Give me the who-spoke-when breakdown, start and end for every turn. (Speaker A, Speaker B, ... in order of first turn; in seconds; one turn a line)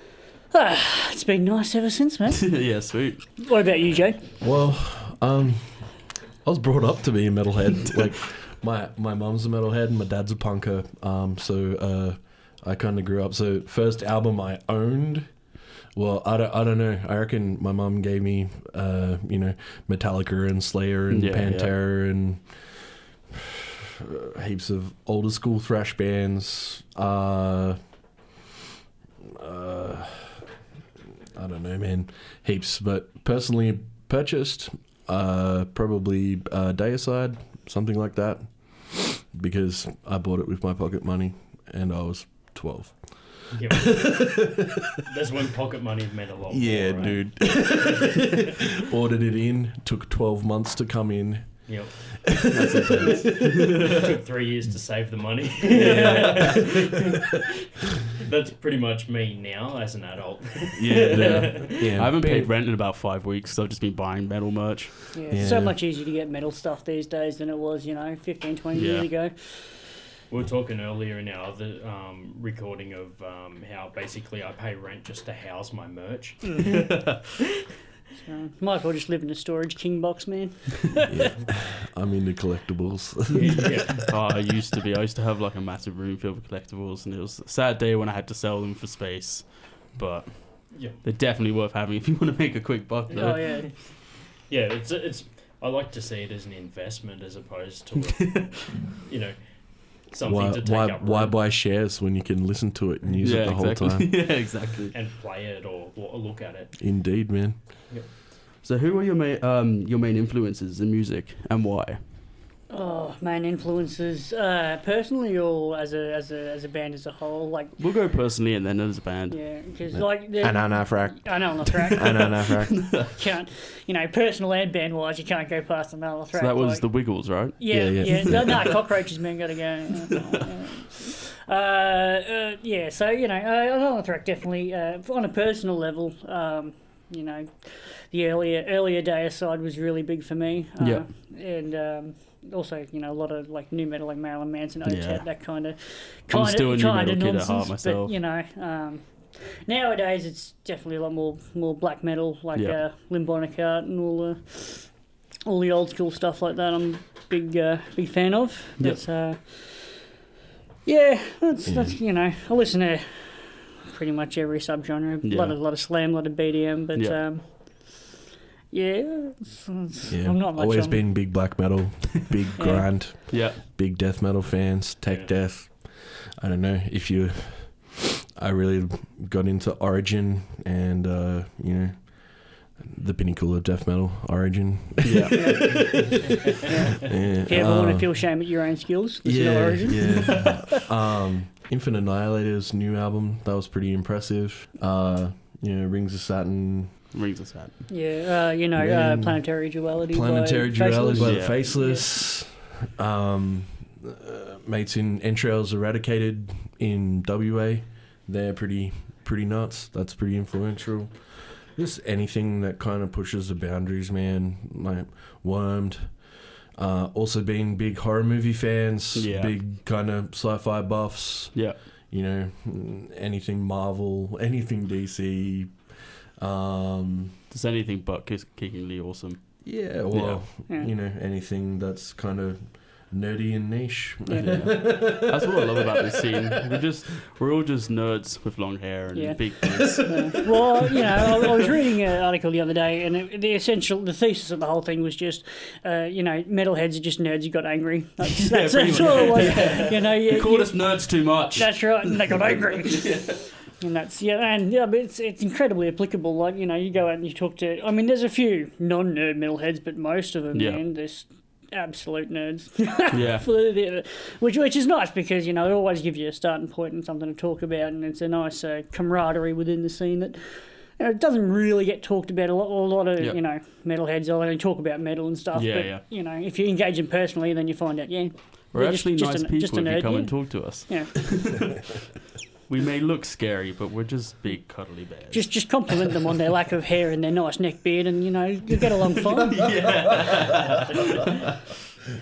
Speaker A: 0.5-2.7
Speaker B: 2.4-3.3
Speaker A: 3.4-4.3
Speaker C: 4.4-27.8
Speaker B: 21.1-21.7
Speaker C: 29.2-30.4
Speaker C: 31.3-44.7
Speaker D: 43.5-47.8
Speaker C: 46.5-53.7
Speaker D: 51.7-52.4
Speaker B: 52.5-53.9
Speaker D: 53.2-57.5
Speaker C: 55.8-56.6
Speaker B: 55.8-56.5
Speaker D: 58.1-62.0
Speaker C: 60.8-62.5
Speaker B: 61.1-65.5
Speaker A: 65.1-69.8
Speaker C: 65.3-65.8
Speaker B: 68.8-69.1
Speaker D: 70.3-76.8
Speaker B: 76.7-77.2
Speaker A: 78.2-81.2
Speaker C: 81.1-84.0
Speaker D: 83.3-84.1
Speaker B: 84.1-93.6
Speaker D: 90.7-91.0
Speaker D: 93.1-101.4
Speaker A: 93.2-93.7
Speaker B: 98.1-98.7
Speaker C: 100.2-104.2
Speaker B: 103.2-104.9
Speaker D: 104.9-106.8
Speaker C: 106.8-107.6
Speaker B: 108.6-112.0
Speaker A: 112.7-117.8
Speaker B: 117.8-119.6
Speaker A: 119.3-122.4
Speaker C: 119.9-123.1
Speaker A: 123.1-154.9
Speaker B: 126.3-128.6
Speaker C: 127.7-128.8
Speaker B: 140.8-141.1
Speaker B: 144.9-145.3
Speaker B: 146.3-148.1
Speaker A: 155.5-160.0
Speaker A: 160.8-168.0
Speaker C: 161.7-162.0
Speaker B: 165.2-165.6
Speaker B: 166.9-167.2
Speaker A: 168.7-171.1
Speaker C: 170.1-186.2
Speaker A: 172.6-172.9
Speaker B: 173.3-173.6
Speaker D: 175.1-175.3
Speaker B: 185.0-185.5
Speaker A: 185.3-190.5
Speaker C: 187.0-188.3
Speaker C: 189.2-196.9
Speaker B: 197.1-197.9
Speaker A: 197.9-202.1
Speaker C: 198.8-227.3
Speaker B: 201.2-201.6
Speaker B: 219.2-219.6
Speaker B: 221.5-221.8
Speaker B: 227.5-230.4
Speaker C: 229.6-236.8
Speaker A: 234.3-234.7
Speaker B: 234.4-240.1
Speaker A: 239.1-281.4
Speaker B: 248.2-253.5
Speaker B: 260.5-260.8
Speaker B: 263.1-263.5
Speaker B: 275.5-276.0
Speaker B: 278.7-281.8
Speaker B: 282.7-286.0
Speaker A: 285.3-289.7
Speaker B: 289.3-290.9
Speaker D: 289.7-291.7